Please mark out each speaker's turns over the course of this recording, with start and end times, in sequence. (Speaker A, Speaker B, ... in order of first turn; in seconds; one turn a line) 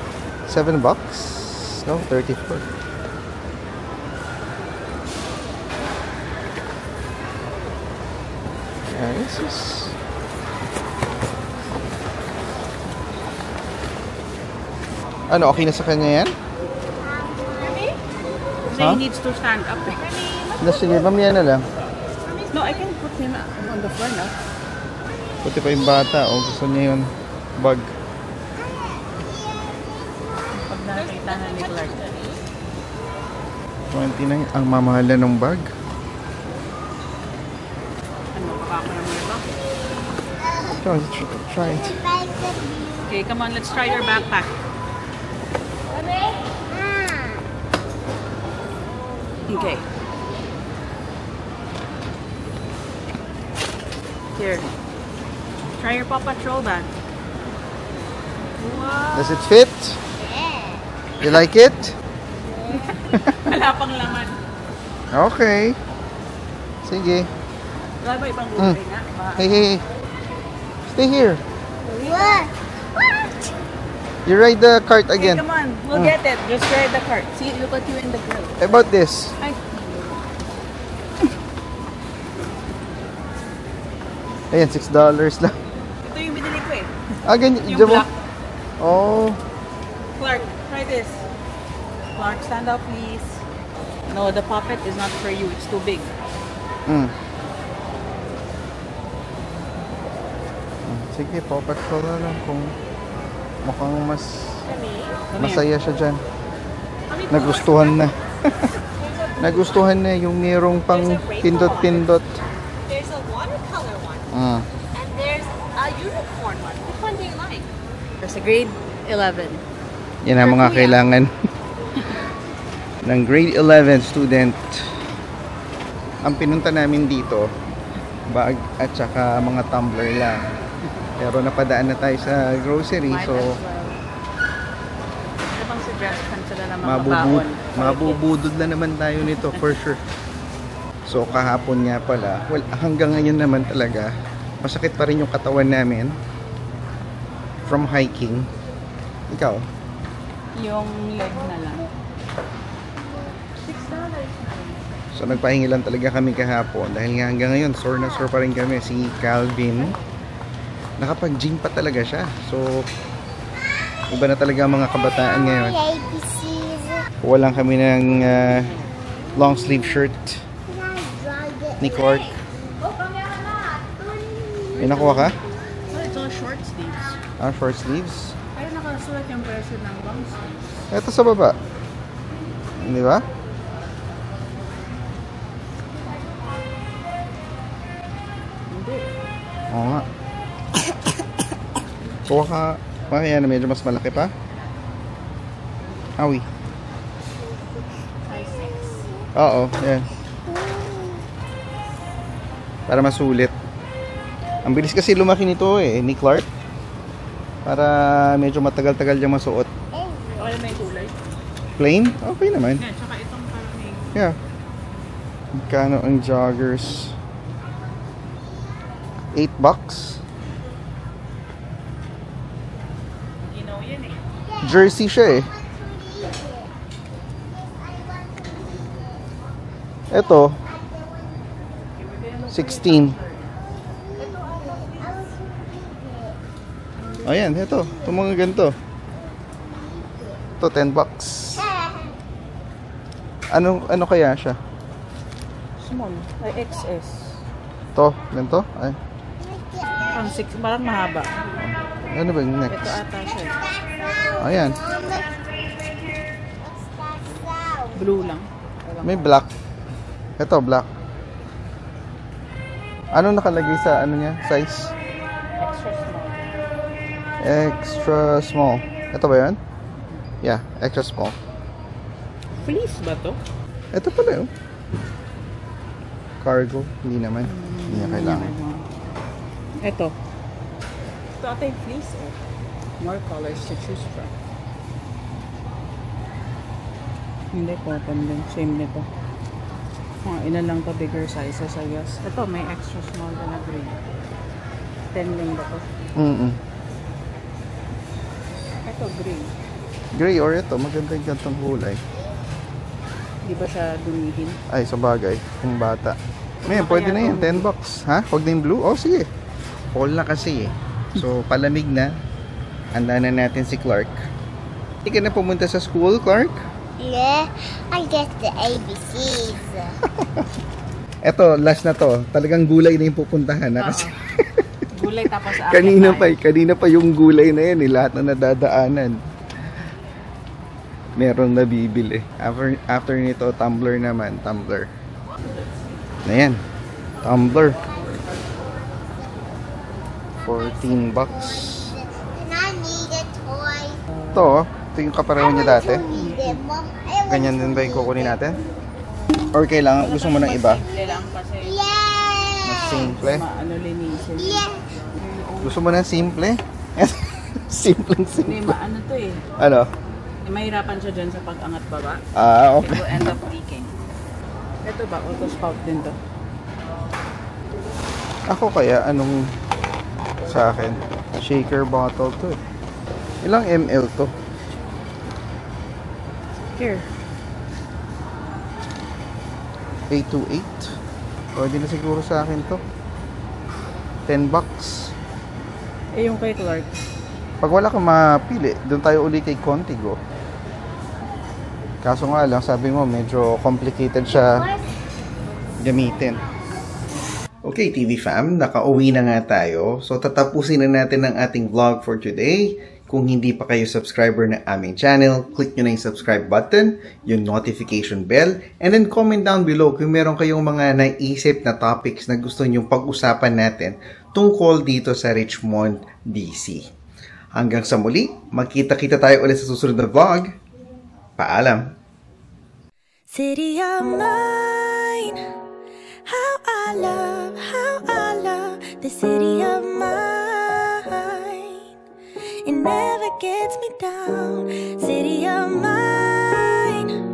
Speaker A: 0.5-2.7
Speaker A: 8.9-9.9
Speaker A: 15.3-16.4
Speaker B: 17.6-17.9
Speaker C: 18.7-20.2
Speaker A: 18.7-19.0
Speaker B: 20.1-21.0
Speaker A: 20.6-21.7
Speaker B: 22.2-22.8
Speaker C: 22.5-24.4
Speaker A: 25.4-27.9
Speaker C: 30.5-32.2
Speaker B: 30.9-32.4
Speaker A: 33.9-35.7
Speaker C: 38.3-39.5
Speaker A: 40.7-42.0
Speaker C: 43.0-44.6
Speaker C: 49.5-49.9
Speaker C: 54.4-54.7
Speaker C: 55.8-56.9
Speaker C: 58.6-59.5
Speaker A: 59.1-60.0
Speaker A: 61.2-62.0
Speaker C: 62.7-64.4
Speaker A: 63.1-63.4
Speaker A: 65.1-65.8
Speaker A: 66.8-67.3
Speaker C: 68.0-69.5
Speaker A: 69.4-69.8
Speaker A: 70.9-71.4
Speaker C: 71.8-72.5
Speaker A: 74.3-76.1
Speaker C: 75.2-78.6
Speaker A: 78.6-79.4
Speaker C: 79.4-80.2
Speaker A: 84.5-85.6
Speaker C: 86.0-86.9
Speaker A: 87.2-88.1
Speaker C: 87.7-88.1
Speaker A: 88.8-89.4
Speaker C: 90.2-91.3
Speaker C: 92.1-93.5
Speaker C: 94.1-96.1
Speaker A: 96.9-97.2
Speaker A: 100.8-102.8
Speaker A: 103.6-104.7
Speaker B: 104.7-105.2
Speaker C: 105.3-105.7
Speaker A: 105.4-106.2
Speaker B: 107.1-108.1
Speaker A: 107.3-108.7
Speaker B: 108.9-109.9
Speaker A: 109.4-112.4
Speaker B: 110.9-112.1
Speaker B: 112.8-114.3
Speaker A: 114.3-114.7
Speaker B: 114.9-117.7
Speaker C: 118.2-119.6
Speaker A: 120.2-121.3
Speaker C: 120.4-121.0
Speaker A: 123.0-124.9
Speaker A: 126.2-127.5
Speaker A: 128.3-130.4
Speaker A: 131.2-133.5
Speaker C: 133.1-134.0
Speaker C: 135.5-138.2
Speaker A: 136.8-140.0
Speaker C: 139.3-139.6
Speaker A: 141.1-146.2
Speaker A: 147.7-148.5
Speaker A: 149.3-149.7
Speaker C: 150.5-151.9
Speaker C: 153.6-154.8
Speaker A: 155.1-159.9
Speaker A: 161.0-162.9
Speaker A: 164.1-165.9
Speaker A: 167.2-168.8
Speaker A: 169.4-170.5
Speaker A: 171.8-172.3
Speaker C: 174.7-177.2
Speaker A: 174.8-175.4
Speaker A: 177.4-178.4
Speaker C: 178.5-180.6
Speaker A: 180.9-181.6
Speaker A: 182.8-183.2
Speaker C: 188.7-189.2
Speaker A: 189.7-190.1
Speaker A: 192.3-194.3
Speaker A: 196.2-196.5
Speaker C: 198.3-199.2
Speaker A: 199.3-200.1
Speaker A: 202.9-203.5
Speaker A: 204.7-206.5
Speaker A: 207.7-209.7
Speaker C: 210.3-211.2
Speaker A: 211.8-212.8
Speaker C: 212.8-214.1
Speaker A: 215.6-217.2
Speaker A: 219.3-220.2
Speaker C: 223.5-224.2
Speaker A: 224.6-225.5
Speaker A: 230.1-230.6
Speaker C: 232.0-233.6
Speaker A: 232.5-233.2
Speaker C: 234.1-235.3
Speaker A: 237.2-238.8
Speaker A: 240.6-241.7
Speaker A: 243.5-244.6
Speaker C: 245.8-247.4
Speaker A: 248.0-249.0
Speaker C: 250.1-251.3
Speaker A: 251.6-253.0
Speaker C: 252.7-253.6
Speaker A: 254.4-254.8
Speaker C: 257.9-259.3
Speaker A: 259.0-259.5
Speaker A: 260.4-260.9
Speaker A: 263.1-264.9
Speaker C: 265.6-266.5
Speaker A: 267.4-269.6
Speaker A: 270.4-271.4
Speaker C: 272.6-273.4
Speaker A: 273.9-274.5
Speaker A: 276.4-278.5
Speaker C: 277.4-278.9
Speaker C: 279.8-280.1
Speaker C: 281.4-282.4
Speaker C: 283.0-284.4
Speaker C: 287.5-289.1
Speaker C: 290.2-294.0
Speaker C: 295.1-296.0
Speaker A: 296.2-296.6
Speaker C: 298.8-299.5
Speaker A: 300.1-302.0
Speaker C: 303.4-304.6
Speaker A: 304.7-309.3
Speaker C: 306.6-307.7
Speaker A: 309.9-312.1
Speaker A: 312.9-314.3
Speaker A: 315.1-316.6
Speaker D: 317.1-319.2
Speaker A: 320.1-320.4
Speaker A: 321.2-324.7
Speaker C: 323.8-324.2
Speaker C: 324.9-326.4
Speaker A: 325.7-329.2
Speaker A: 331.2-334.9
Speaker A: 336.2-336.6
Speaker A: 337.2-338.0
Speaker A: 340.4-342.0
Speaker A: 344.3-346.2
Speaker C: 346.0-346.8
Speaker A: 347.2-348.6
Speaker A: 349.5-350.8
Speaker C: 350.0-351.9
Speaker A: 352.6-353.4
Speaker C: 352.8-355.9
Speaker A: 355.6-358.7
Speaker C: 358.4-359.4
Speaker A: 359.6-359.9
Speaker C: 360.4-362.2
Speaker A: 362.4-363.4
Speaker C: 362.8-363.9
Speaker C: 364.8-366.2
Speaker A: 368.5-369.5
Speaker A: 370.4-372.6
Speaker A: 373.4-374.3
Speaker C: 376.6-377.1
Speaker A: 380.1-380.9
Speaker A: 381.6-382.8
Speaker A: 384.3-385.1
Speaker C: 386.1-387.0
Speaker A: 387.6-390.2
Speaker A: 392.0-394.8
Speaker A: 395.8-396.4
Speaker A: 397.6-416.9
Speaker A: 417.6-420.5
Speaker A: 421.4-421.8
Speaker E: 423.3-425.4
Speaker E: 426.3-431.9
Speaker E: 432.6-437.1